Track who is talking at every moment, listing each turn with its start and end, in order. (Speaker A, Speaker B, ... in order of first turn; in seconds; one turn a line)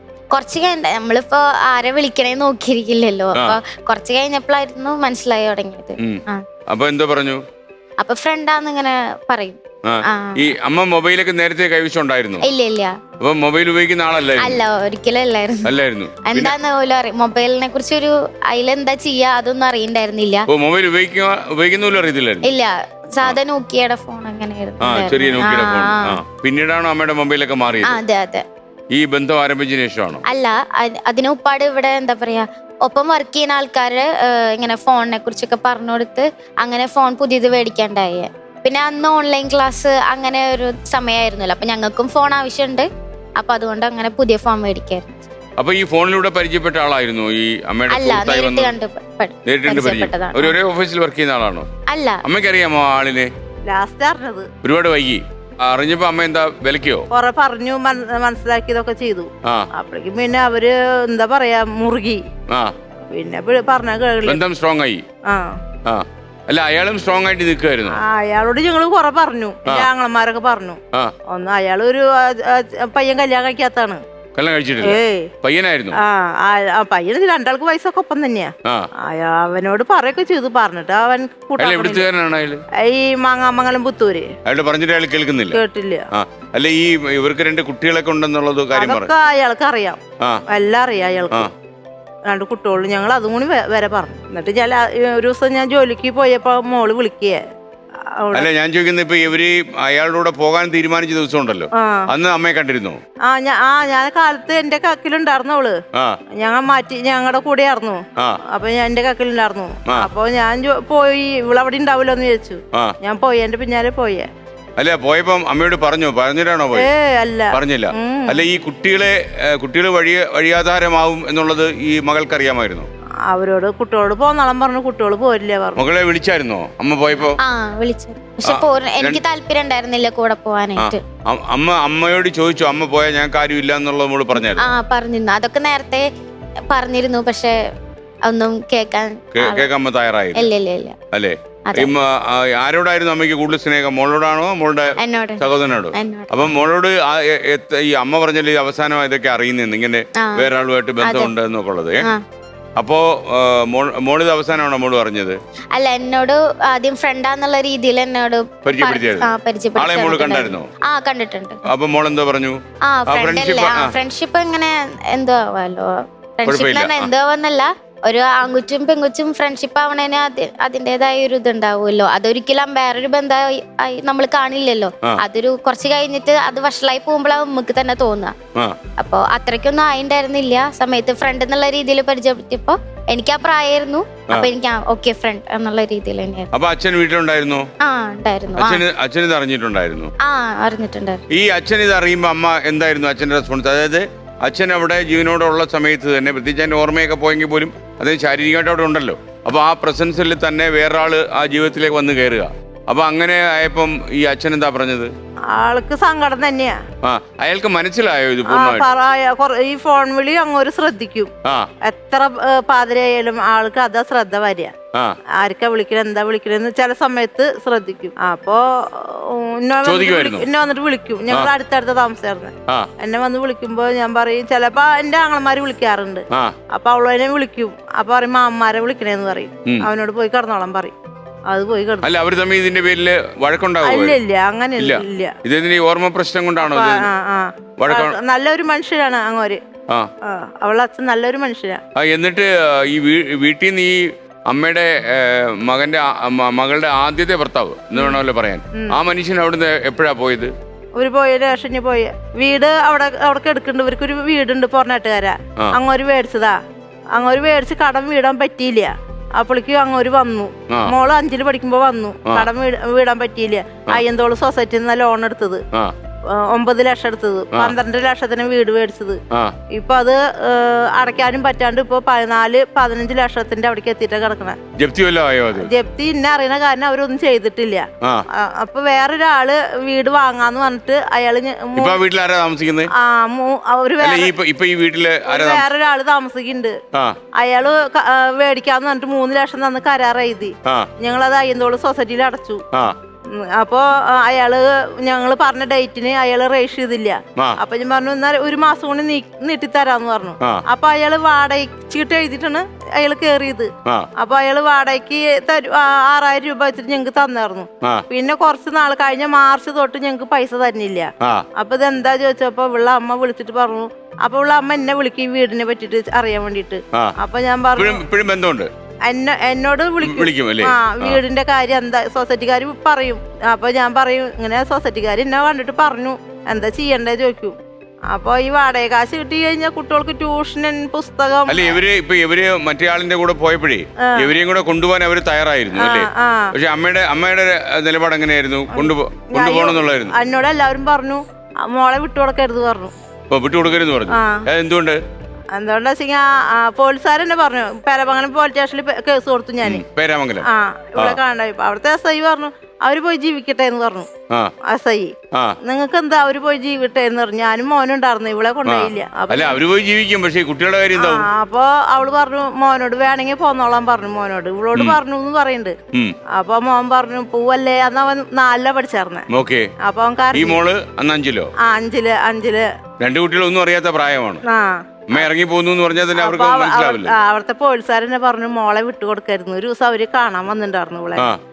Speaker A: 0.3-6.4
Speaker B: 6.0-7.4
Speaker A: 8.0-9.6
Speaker B: 9.8-12.4
Speaker A: 10.1-10.5
Speaker A: 12.4-12.9
Speaker B: 13.2-14.6
Speaker A: 14.4-15.7
Speaker B: 15.6-16.6
Speaker A: 16.2-20.4
Speaker B: 20.5-22.5
Speaker A: 22.4-26.2
Speaker B: 24.8-28.0
Speaker A: 27.9-28.4
Speaker B: 28.9-30.2
Speaker A: 30.3-45.3
Speaker B: 45.6-48.7
Speaker A: 47.9-50.6
Speaker B: 49.5-51.7
Speaker A: 51.9-52.2
Speaker B: 52.2-53.3
Speaker C: 53.6-54.5
Speaker B: 54.6-57.0
Speaker C: 57.1-62.2
Speaker C: 63.1-64.4
Speaker B: 64.2-65.0
Speaker C: 65.3-65.6
Speaker B: 65.8-68.0
Speaker C: 68.0-74.0
Speaker B: 74.3-76.0
Speaker C: 74.8-75.3
Speaker C: 76.0-78.5
Speaker C: 79.0-82.1
Speaker B: 81.6-82.6
Speaker C: 82.8-84.3
Speaker B: 84.5-85.6
Speaker C: 85.5-86.0
Speaker B: 86.1-89.1
Speaker C: 88.7-91.5
Speaker C: 92.3-97.4
Speaker C: 98.2-98.5
Speaker B: 98.3-103.0
Speaker C: 101.7-102.0
Speaker C: 103.2-105.8
Speaker C: 106.4-114.3
Speaker B: 114.8-116.9
Speaker C: 116.7-118.4
Speaker B: 117.5-122.9
Speaker C: 123.3-125.8
Speaker B: 125.8-127.4
Speaker A: 127.1-131.0
Speaker B: 128.5-129.2
Speaker B: 130.8-134.7
Speaker A: 134.3-136.1
Speaker A: 136.7-137.5
Speaker A: 138.2-139.7
Speaker B: 139.3-140.5
Speaker A: 140.3-140.9
Speaker B: 141.1-152.0
Speaker A: 145.0-145.4
Speaker A: 145.9-146.3
Speaker A: 150.2-150.5
Speaker A: 151.0-151.3
Speaker B: 152.8-155.4
Speaker A: 155.7-161.6
Speaker B: 158.6-160.7
Speaker B: 161.7-163.9
Speaker A: 162.9-178.3
Speaker B: 166.4-167.1
Speaker A: 179.0-186.5
Speaker B: 186.5-187.7
Speaker A: 187.8-188.8
Speaker B: 188.6-190.1
Speaker A: 190.2-191.2
Speaker B: 191.3-205.1
Speaker C: 205.5-206.8
Speaker B: 207.0-208.8
Speaker C: 208.5-211.3
Speaker C: 211.8-214.7
Speaker C: 215.4-230.9
Speaker B: 219.8-220.5
Speaker C: 231.5-232.1
Speaker B: 232.0-234.2
Speaker C: 233.8-235.4
Speaker B: 234.8-237.1
Speaker C: 236.6-239.6
Speaker B: 237.8-238.2
Speaker C: 240.2-241.8
Speaker B: 241.9-250.5
Speaker C: 247.9-248.2
Speaker C: 251.0-256.6
Speaker C: 257.1-265.6
Speaker C: 266.4-269.2
Speaker C: 269.7-274.6
Speaker B: 274.8-275.7
Speaker C: 275.6-282.0
Speaker B: 281.8-282.9
Speaker C: 283.0-284.3
Speaker B: 284.0-285.7
Speaker C: 285.3-286.8
Speaker C: 287.4-292.6
Speaker C: 293.3-318.0
Speaker B: 317.7-318.7
Speaker C: 319.1-327.6
Speaker B: 320.0-321.2
Speaker C: 328.1-331.8
Speaker B: 331.5-340.1
Speaker C: 335.7-336.5
Speaker C: 338.7-342.9
Speaker B: 343.3-345.0
Speaker C: 344.1-344.4
Speaker C: 345.6-349.8
Speaker B: 349.6-350.4
Speaker C: 350.4-354.1
Speaker C: 354.7-359.6
Speaker B: 358.6-361.3
Speaker C: 360.9-365.8
Speaker C: 366.3-369.3
Speaker B: 369.3-369.7
Speaker C: 369.8-370.6
Speaker B: 370.3-371.5
Speaker C: 371.6-372.7
Speaker B: 373.0-374.4
Speaker C: 374.4-375.3
Speaker B: 375.1-377.1
Speaker C: 376.1-381.3